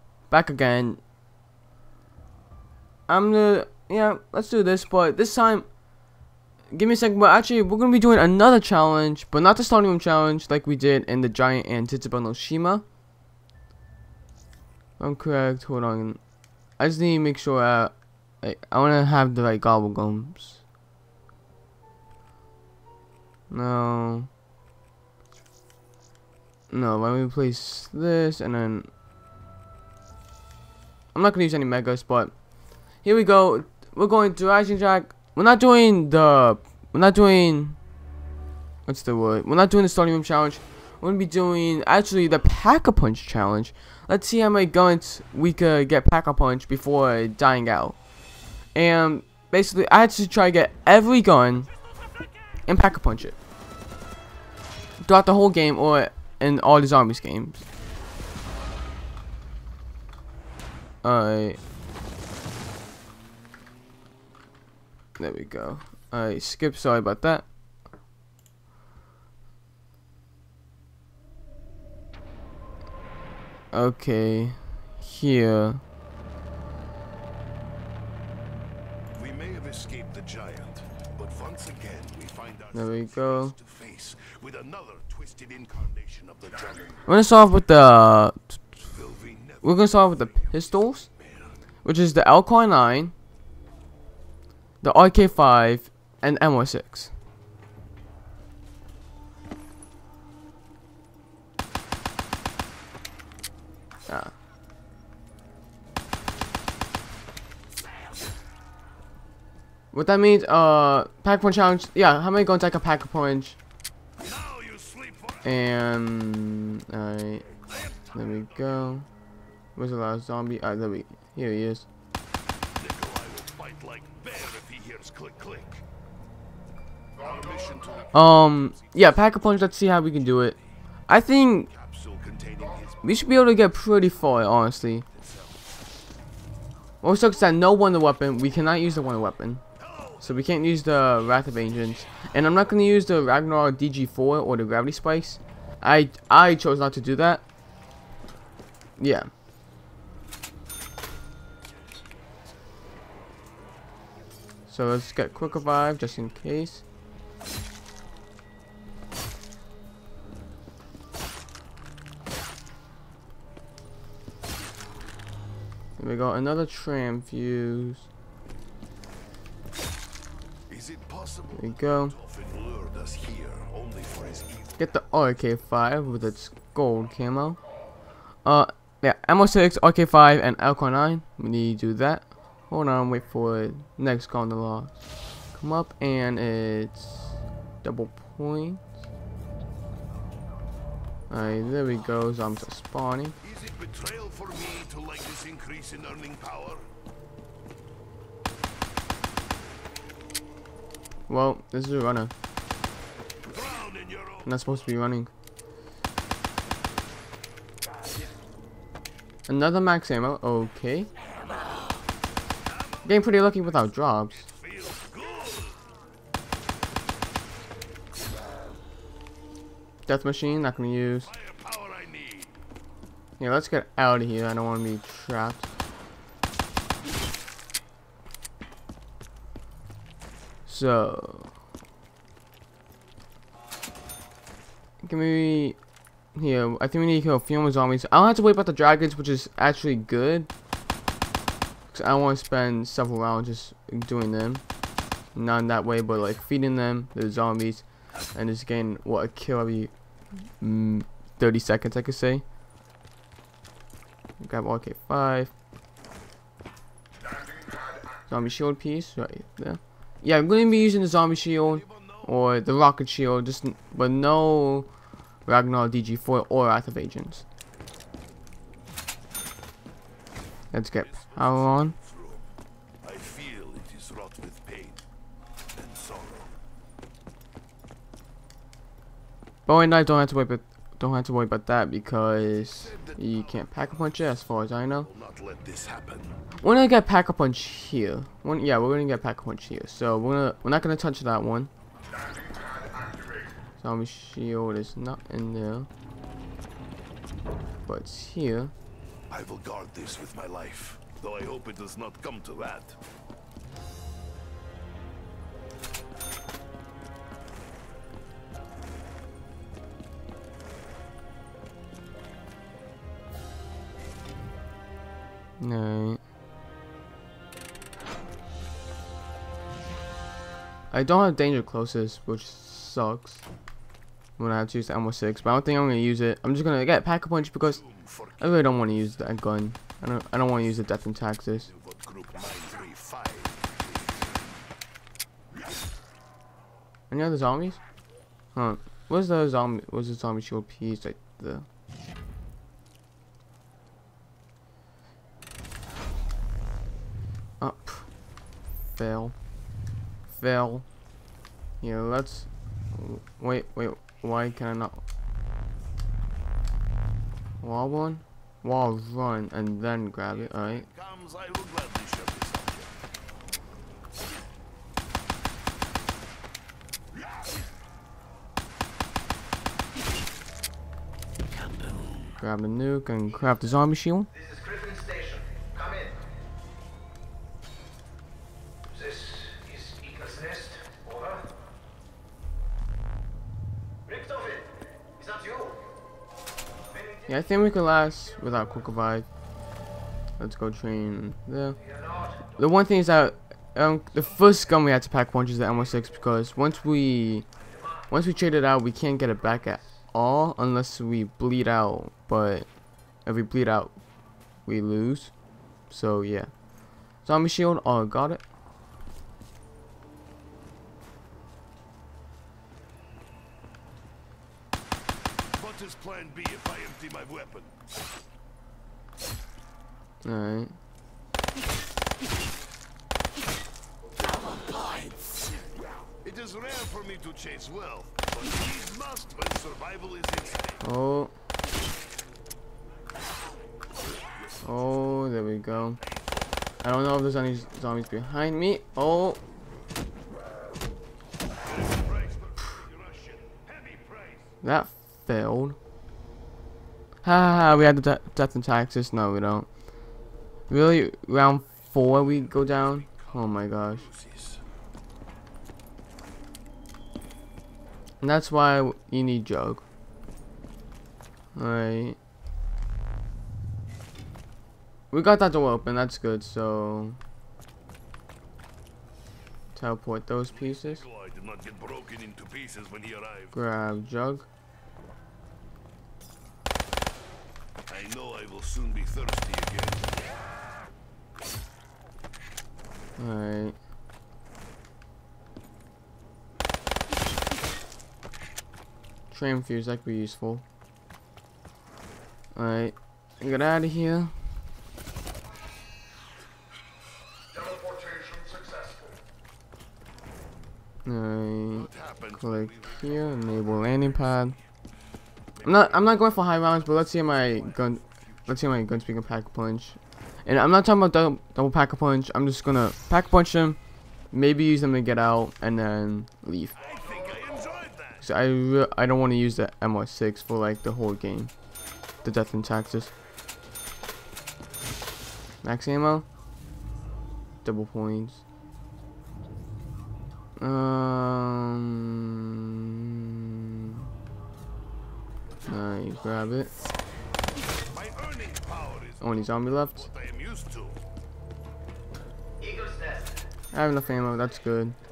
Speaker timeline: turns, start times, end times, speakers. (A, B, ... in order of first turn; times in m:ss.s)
0:00.3-0:01.0 A
0:03.1-0:05.7 A
0:06.7-0:12.8 A
0:15.0-0:16.2 A
0:16.8-0:20.6 A
0:23.5-0:24.3 A
0:26.7-0:28.9 A
0:31.1-0:32.4 A
0:33.0-0:37.8 A
0:38.9-0:48.0 A
0:48.8-0:51.7 A
0:52.7-0:53.4 A
0:55.0-0:57.6 A
1:01.0-1:01.6 A
1:05.2-1:07.5 A
1:13.7-1:15.8 A
1:19.2-1:27.0 B
1:22.7-1:23.6 A
1:27.0-1:28.6 A
1:28.8-1:31.6 B
1:29.6-1:31.1 A
1:31.8-1:33.1 A
1:34.8-1:37.1 A
1:44.1-1:44.3 A
1:49.9-1:53.6 A
1:54.2-1:55.6 B
1:55.4-1:57.5 A
1:57.6-1:59.0 B
1:58.1-1:59.1 A
1:59.8-2:01.9 A
2:02.8-2:05.8 B
2:07.2-2:10.6 B
2:08.1-2:11.7 A
2:11.7-2:13.2 B
2:13.0-2:15.1 A
2:15.1-2:15.7 B
2:17.0-2:19.6 A
2:19.8-2:20.5 B
2:20.2-2:27.4 A
2:29.0-2:29.3 A
2:34.7-2:36.8 A
2:35.4-2:36.0 B
2:46.0-2:48.1 A
2:50.7-2:54.8 B
2:51.6-2:52.2 A
2:54.8-2:57.6 A
2:58.4-3:05.0 A
3:05.5-3:08.9 A
3:11.3-3:13.4 A
3:13.4-3:16.9 B
3:21.3-3:22.3 A
3:23.4-3:24.9 B
3:24.4-3:25.3 A
3:29.5-3:31.1 A
3:32.6-3:35.9 B
3:33.0-3:34.5 A
3:40.1-3:41.3 A
3:41.2-3:42.5 B
3:43.4-3:45.7 A
3:50.7-3:51.5 A
3:55.0-3:55.8 A
3:56.4-4:00.5 A
4:01.9-4:04.6 A
4:05.4-4:09.9 A
4:10.6-4:12.4 A
4:14.4-4:15.5 A
4:18.3-4:24.9 A
4:21.6-4:22.4 B
4:25.5-4:27.4 A
4:30.7-4:32.0 A
4:30.9-4:32.5 B
4:33.0-4:35.0 B
4:35.7-4:36.6 B
4:39.7-4:45.1 A
4:42.5-4:46.4 B
4:46.6-4:51.7 A
4:53.8-4:55.9 A
4:57.9-4:58.7 A
4:59.3-5:03.0 B
5:15.6-5:16.2 A
5:20.9-5:23.4 A
5:24.4-5:27.8 A
5:27.4-5:29.2 B
5:28.4-5:31.7 A
5:31.6-5:34.5 B
5:37.1-5:37.8 A
5:38.6-5:41.7 A
5:47.6-5:48.1 A
5:49.0-5:49.4 A
5:50.3-5:50.9 A
5:51.8-5:55.0 A
5:57.6-6:00.9 A
6:00.3-6:02.9 B
6:11.5-6:12.4 B
6:12.4-6:14.3 A
6:14.3-6:16.2 C
6:18.9-6:21.5 C
6:24.1-6:25.8 C
6:26.9-6:28.8 C
6:27.3-6:29.3 A
6:30.4-6:31.8 A
6:31.8-6:32.6 C
6:32.6-6:37.5 A
6:37.6-6:38.3 C
6:38.1-6:42.7 A
6:39.4-6:39.8 C
6:43.2-6:44.0 A
6:44.6-6:45.3 A
6:45.9-6:46.6 A
6:47.2-6:48.4 A
6:55.6-6:57.7 B
7:00.2-7:00.7 A
7:06.2-7:10.8 B
7:10.8-7:11.3 A
7:14.2-7:15.1 B
7:14.6-7:16.0 A
7:16.0-7:16.7 B
7:16.8-7:19.4 A
7:21.6-7:24.5 B
7:24.6-7:25.8 A
7:27.2-7:29.7 A
7:30.7-7:34.1 A
7:31.9-7:34.6 B
7:38.2-7:39.8 A
7:41.6-7:42.2 A
7:45.1-7:47.2 A
7:49.7-7:51.0 A
7:50.5-7:53.6 B
7:53.5-7:54.5 A
7:57.9-8:00.1 B
8:03.2-8:03.8 A
8:09.3-8:10.6 A
8:12.6-8:14.3 A
8:21.0-8:24.6 A
8:21.7-8:24.6 B
8:25.6-8:28.8 B
8:25.6-8:33.8 A
8:34.3-8:36.8 A
8:36.8-8:38.3 B
8:38.2-8:41.5 A
8:42.2-8:43.1 A
8:45.6-8:46.3 A
8:47.6-8:48.4 A
8:50.6-8:54.1 A
8:55.7-8:56.7 A
8:57.9-9:01.0 B
8:59.2-9:00.1 A
9:02.6-9:03.4 C
9:03.7-9:05.0 A
9:04.0-9:04.6 C